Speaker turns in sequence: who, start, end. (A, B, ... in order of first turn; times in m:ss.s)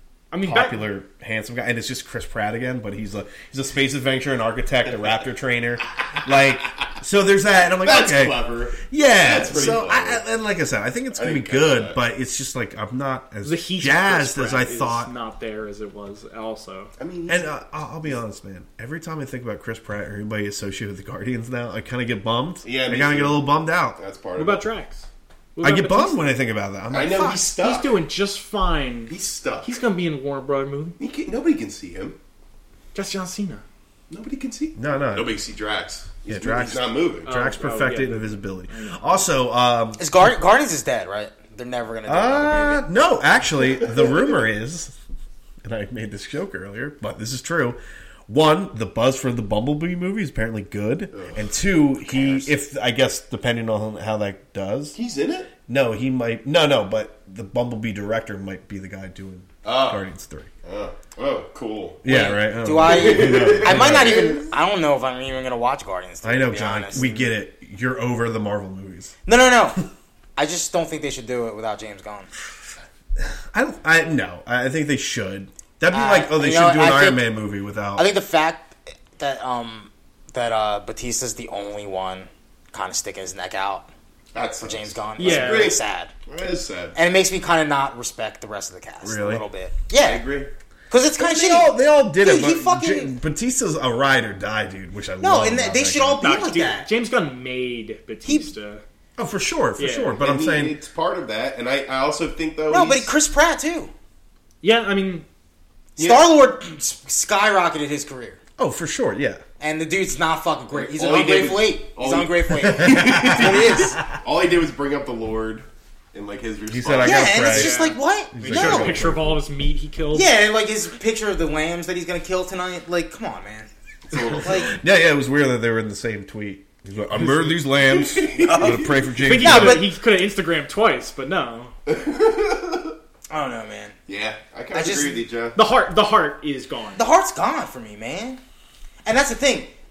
0:00.3-0:00.9 A
0:00.4-0:15.1 B
0:07.7-0:10.2 C
0:11.1-0:12.0 C
0:13.4-0:16.9 A
0:17.0-0:17.5 C
0:17.3-0:24.0 B
0:22.6-0:24.7 C
0:24.4-0:26.3 A
0:25.6-0:27.5 B
0:26.9-0:28.0 C
0:27.6-0:31.0 A
0:29.1-0:29.7 C
0:31.0-0:32.2 C
0:32.9-0:33.6 A
0:34.1-0:37.3 C
0:34.8-0:35.3 B
0:36.3-0:40.0 B
0:37.2-0:39.2 A
0:40.0-0:42.9 D
0:42.1-0:44.9 B
0:45.6-0:55.0 B
0:52.0-0:52.5 D
0:54.9-0:55.5 C
0:55.7-1:00.5 B
0:59.6-1:00.0 C
1:00.6-1:02.2 C
1:02.0-1:04.3 B
1:02.0-1:07.2 D
1:02.7-1:04.5 C
1:06.2-1:09.1 B
1:09.2-1:12.3 D
1:13.2-1:18.1 B
1:15.9-1:17.2 D
1:18.0-1:23.9 D
1:24.3-1:27.0 C
1:24.6-1:26.1 D
1:25.2-1:25.7 A
1:26.9-1:30.2 D
1:29.0-1:29.4 B
1:30.0-1:30.5 C
1:30.9-1:33.1 D
1:31.2-1:36.2 B
1:35.2-1:36.9 D
1:36.2-1:38.8 A
1:39.2-1:40.8 B
1:39.8-1:40.2 A
1:40.1-1:43.1 C
1:42.7-1:43.9 D
1:44.6-1:45.2 A
1:46.0-1:46.3 C
1:46.0-1:48.4 D
1:48.6-1:49.4 B
1:49.6-1:54.0 D
1:50.7-1:57.9 C
1:52.7-1:53.8 B
1:56.7-1:59.4 B
1:57.0-1:59.0 D
1:57.5-1:57.9 A
1:58.4-2:00.3 A
1:58.4-1:59.0 C
2:00.1-2:03.7 D
2:04.1-2:04.8 C
2:04.1-2:09.8 B
2:04.4-2:04.8 D
2:07.1-2:07.5 A
2:07.7-2:09.1 C
2:08.4-2:09.9 D
2:09.2-2:11.7 A
2:11.8-2:12.9 C
2:13.3-2:14.0 D
2:14.1-2:15.6 C
2:14.7-2:15.2 D
2:15.5-2:17.0 A
2:16.9-2:18.4 D
2:19.0-2:19.7 D